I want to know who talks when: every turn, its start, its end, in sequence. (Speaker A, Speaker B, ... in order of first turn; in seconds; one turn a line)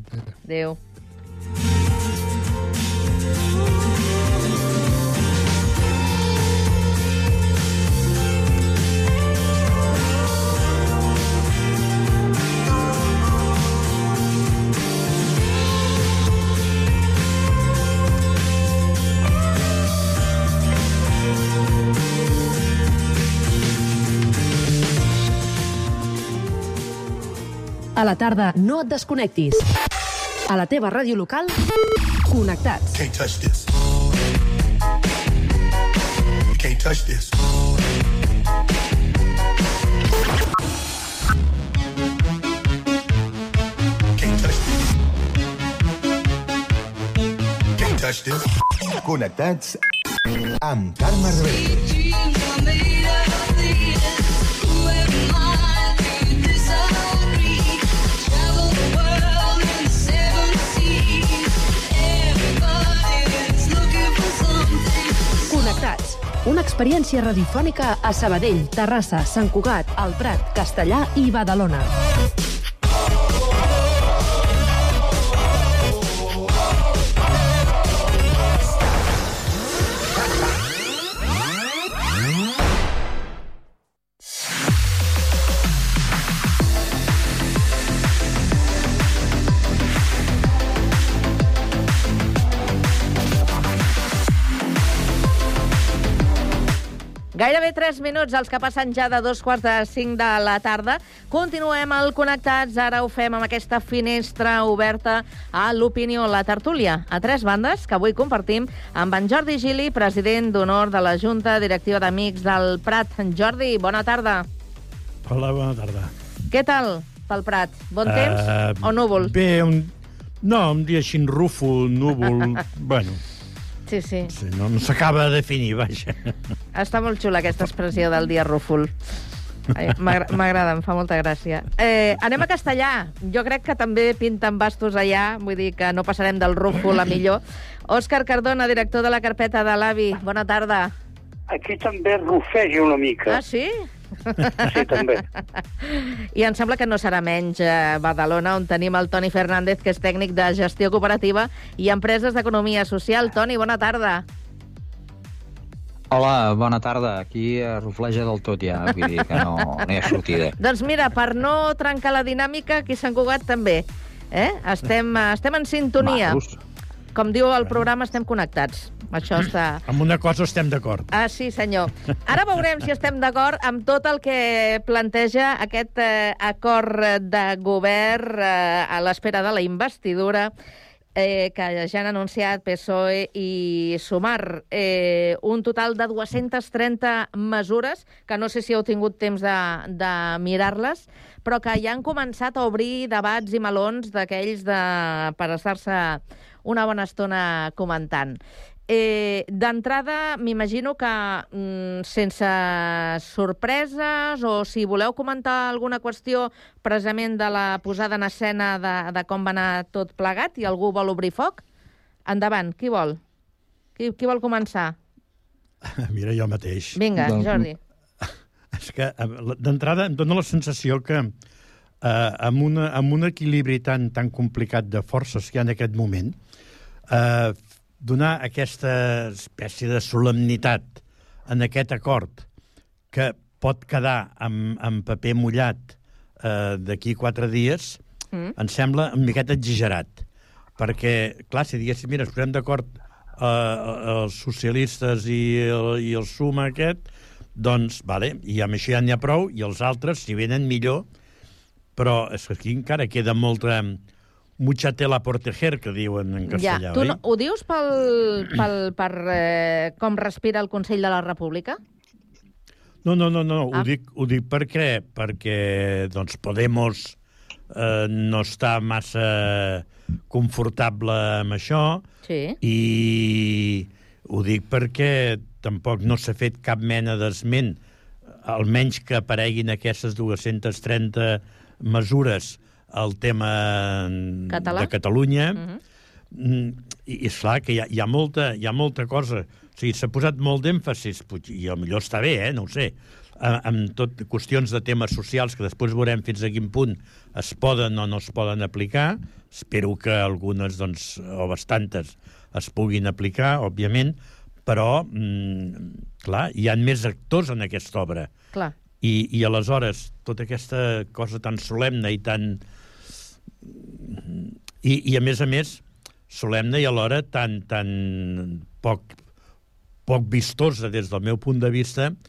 Speaker A: 0.5-0.8
Speaker B: 28.0-29.6
Speaker B: 30.5-31.6
Speaker B: 32.3-33.0
Speaker C: 32.9-33.7
Speaker C: 36.5-37.3
Speaker C: 44.2-45.0
Speaker C: 47.8-48.4
Speaker C: 49.0-49.8
Speaker C: 50.6-52.0
Speaker B: 65.5-71.9
Speaker A: 97.3-114.5
Speaker D: 115.3-116.1
Speaker A: 116.5-119.3
Speaker D: 118.0-123.2
Speaker A: 123.9-124.3
Speaker D: 124.3-126.2
Speaker A: 126.8-128.9
Speaker A: 129.7-140.9
Speaker E: 141.5-143.4
Speaker A: 143.3-144.8
Speaker E: 144.7-145.2
Speaker A: 145.8-154.2
Speaker F: 156.1-160.6
Speaker A: 160.6-166.4
Speaker F: 166.0-166.6
Speaker A: 167.1-169.8
Speaker D: 169.9-171.1
Speaker A: 171.1-180.5
Speaker A: 181.2-211.6
Speaker A: 212.3-213.2
Speaker A: 214.0-214.9
Speaker D: 215.8-217.6
Speaker A: 216.9-217.8
Speaker D: 218.2-221.3
Speaker D: 222.0-226.4
Speaker D: 227.1-232.4
Speaker D: 233.1-238.0
Speaker D: 238.6-240.2
Speaker D: 240.8-251.1
Speaker D: 251.9-254.0
Speaker D: 254.6-257.2
Speaker A: 256.5-261.8
Speaker D: 263.1-267.2
Speaker D: 267.7-272.0
Speaker A: 272.2-272.6
Speaker D: 272.6-277.8
Speaker D: 278.4-285.6
Speaker A: 284.5-284.9
Speaker D: 286.3-308.3
Speaker D: 309.0-312.6
Speaker D: 313.7-319.2
Speaker D: 320.1-322.2